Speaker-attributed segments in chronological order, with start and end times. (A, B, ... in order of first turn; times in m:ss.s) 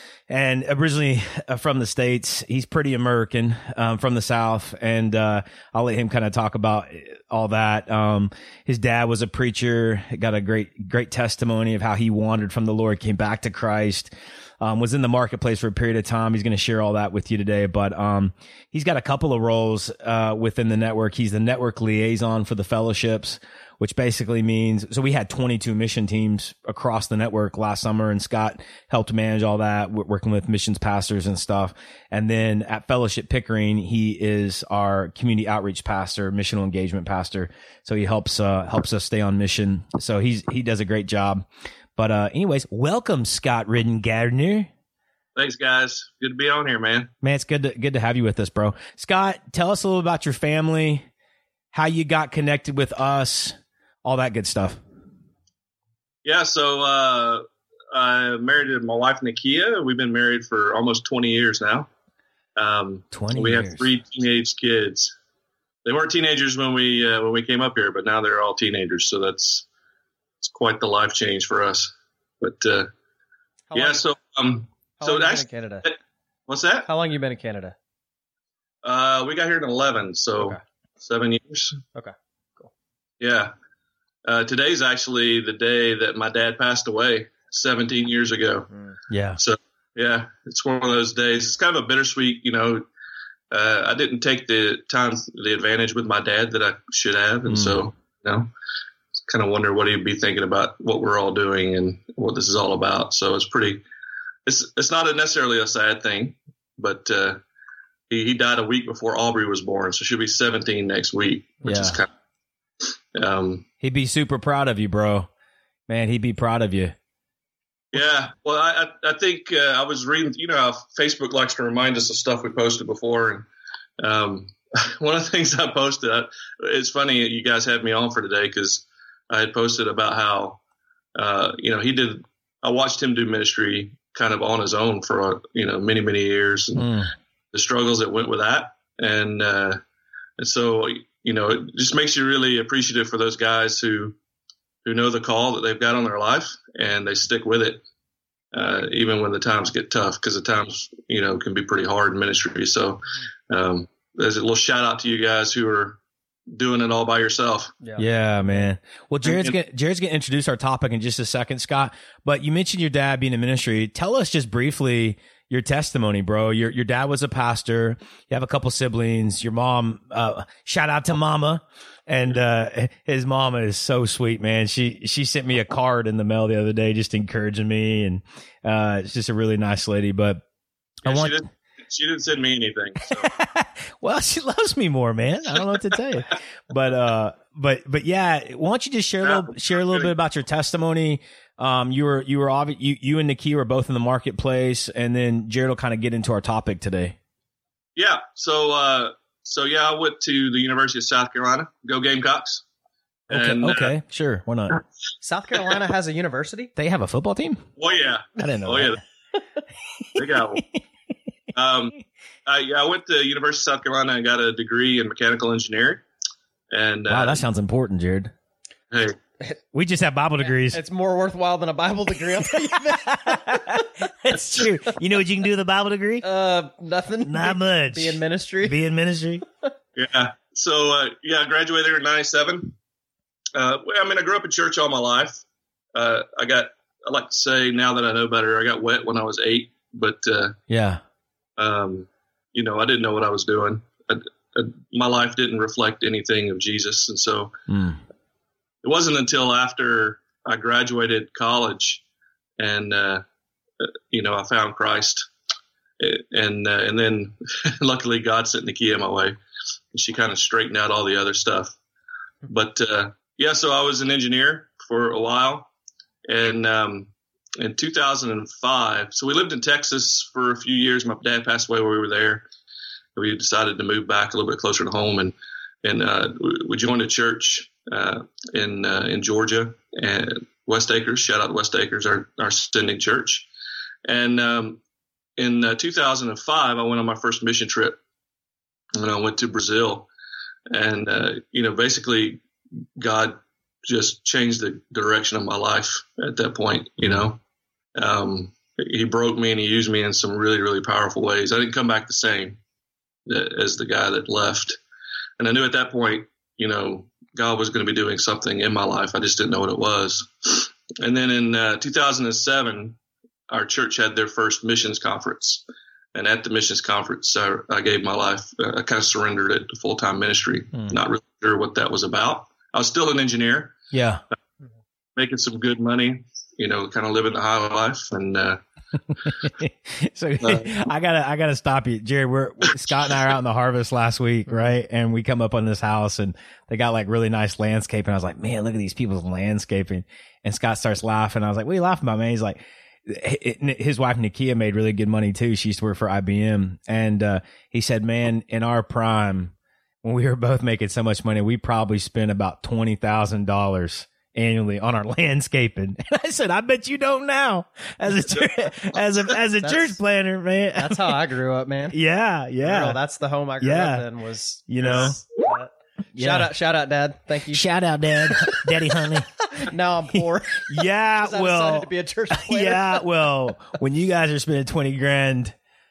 0:00.3-0:44.7 A
0:45.4-0:47.1 B
0:47.2-0:51.1 A
0:51.7-0:54.8 A
0:56.2-1:01.9 B
1:02.6-1:05.1 B
1:03.1-1:03.9 A
1:05.8-1:09.7 B
1:10.4-1:12.9 B
1:13.7-1:14.0 C
1:13.7-1:15.9 B
1:15.0-1:15.9 C
1:16.5-1:16.9 B
1:16.9-1:17.8 C
1:18.8-1:21.8 B
1:22.0-1:22.7 C
1:23.2-1:23.5 B
1:24.2-1:28.7 B
1:28.7-1:29.0 C
1:29.1-1:29.4 A
1:29.4-1:32.8 B
1:33.5-1:38.5 B
1:37.5-1:37.8 A
1:39.3-1:43.8 B
1:44.5-1:47.4 B
1:48.1-1:52.1 B
1:51.6-1:52.0 A
1:53.1-1:53.7 B
1:53.8-1:55.3 A
1:55.9-1:57.0 A
1:57.9-2:03.5 B
2:04.0-2:10.6 B
2:11.2-2:16.9 B
2:16.8-2:17.1 A
2:17.5-2:19.8 B
2:20.4-2:24.2 B
2:24.8-2:27.8 B
2:28.5-2:37.7 B
2:37.8-2:38.7 C
2:38.0-3:00.4 A
2:39.2-2:39.6 B
3:01.0-3:01.4 A
3:01.0-3:03.3 B
3:03.1-3:17.2 A
3:09.2-3:10.1 B
3:18.0-3:22.6 B
3:23.3-3:23.9 B
3:23.3-3:24.8 A
3:25.2-3:26.7 C
3:26.8-3:27.7 A
3:27.8-3:29.0 B
3:28.4-3:29.0 A
3:30.2-3:30.6 B
3:30.2-3:30.6 A
3:31.6-3:36.0 B
3:36.7-3:37.4 B
3:37.1-3:38.3 A
3:38.9-3:39.2 B
3:39.7-3:40.8 A
3:40.4-3:43.9 C
3:42.5-3:46.2 A
3:44.6-3:44.9 C
3:46.2-3:48.8 C
3:47.2-3:49.4 A
3:50.0-3:52.7 B
3:53.6-4:00.6 B
4:00.7-4:01.0 A
4:01.6-4:07.5 B
4:07.7-4:08.0 A
4:08.8-4:12.0 B
4:12.6-4:13.2 B
4:13.8-4:15.3 B
4:16.0-4:19.4 B
4:19.9-4:21.8 B
4:22.5-4:25.7 B
4:26.3-4:32.5 B
4:33.2-4:43.5 B
4:44.0-4:44.8 B
4:45.4-4:48.0 B
4:49.0-4:50.1 B
4:50.7-4:52.4 B
4:53.0-4:57.4 B
4:57.0-4:57.3 A
4:58.0-5:02.6 B
5:03.3-5:04.8 B
5:05.4-5:13.0 B
5:13.5-5:15.6 B
5:16.1-5:23.8 B
5:20.7-5:21.0 A
5:23.9-5:24.2 A
5:25.2-5:28.6 B
5:29.2-6:01.2 A
5:30.4-5:30.7 B
5:59.6-6:00.0 C
6:00.8-6:02.0 C
6:01.9-6:03.0 A
6:02.6-6:07.6 C
6:03.6-6:04.1 A
6:04.7-6:05.2 A
6:04.8-6:05.1 B
6:06.2-6:06.5 A
6:07.5-6:09.3 A
6:08.2-6:08.7 C
6:09.5-6:13.1 C
6:10.2-6:15.6 A